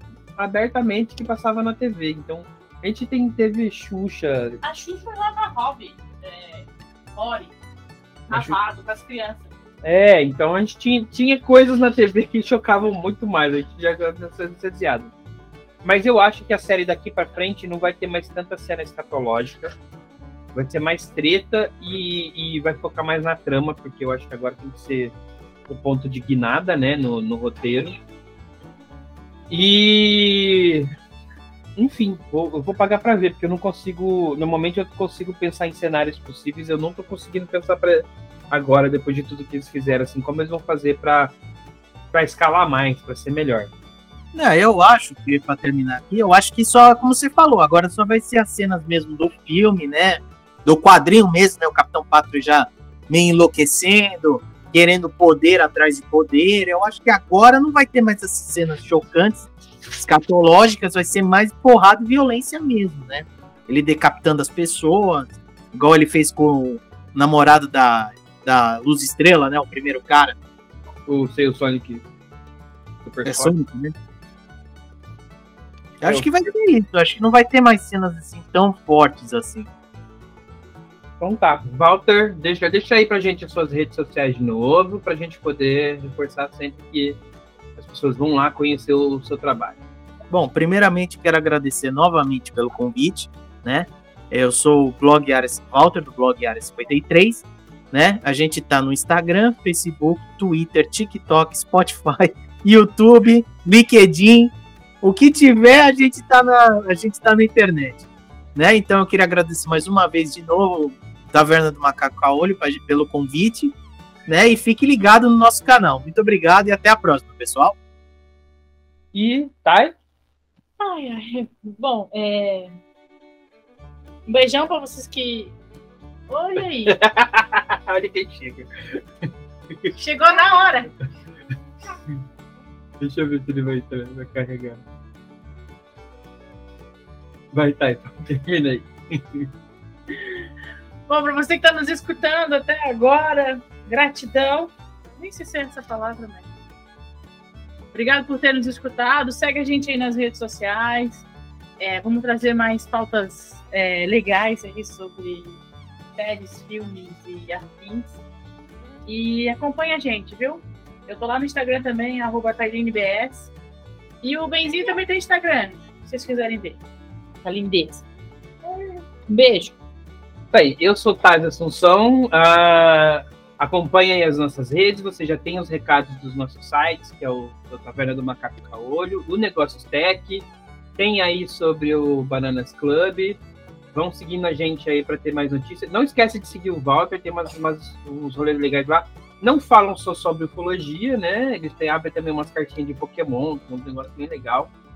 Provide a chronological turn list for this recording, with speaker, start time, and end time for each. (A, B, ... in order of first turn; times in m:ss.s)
0:00.4-0:04.6 A
0:04.6-0:07.6 B
0:08.3-0:09.5 B
0:08.3-0:08.6 A
0:09.8-0:15.1 A
0:15.8-0:19.7 A
0:20.5-0:25.1 A
0:25.7-0:27.9 A
0:29.5-0:30.9 A
0:31.8-0:41.3 A
0:42.1-0:43.7 A
0:44.3-1:10.4 C
1:11.1-1:12.0 A
1:13.0-1:13.5 A
1:13.2-1:13.9 C
1:16.0-1:19.7 C
1:16.0-1:16.3 A
1:21.2-1:27.2 A
1:27.8-1:29.8 A
1:30.3-1:48.0 C
1:48.5-1:53.7 C
1:54.3-1:57.7 C
1:59.1-1:59.9 A
2:00.8-2:02.7 B
2:04.3-2:05.5 B
2:06.3-2:06.9 B
2:06.6-2:09.0 A
2:10.0-2:10.9 B
2:13.0-2:14.8 A
2:17.5-2:19.5 A
2:21.1-2:26.5 B
2:27.9-2:31.2 B
2:31.8-2:35.6 B
2:36.2-2:38.2 B
2:39.0-2:43.5 B
2:44.2-2:46.8 B
2:47.4-2:48.0 B
2:48.6-2:49.7 B
2:50.5-3:03.4 A
3:03.9-3:14.7 A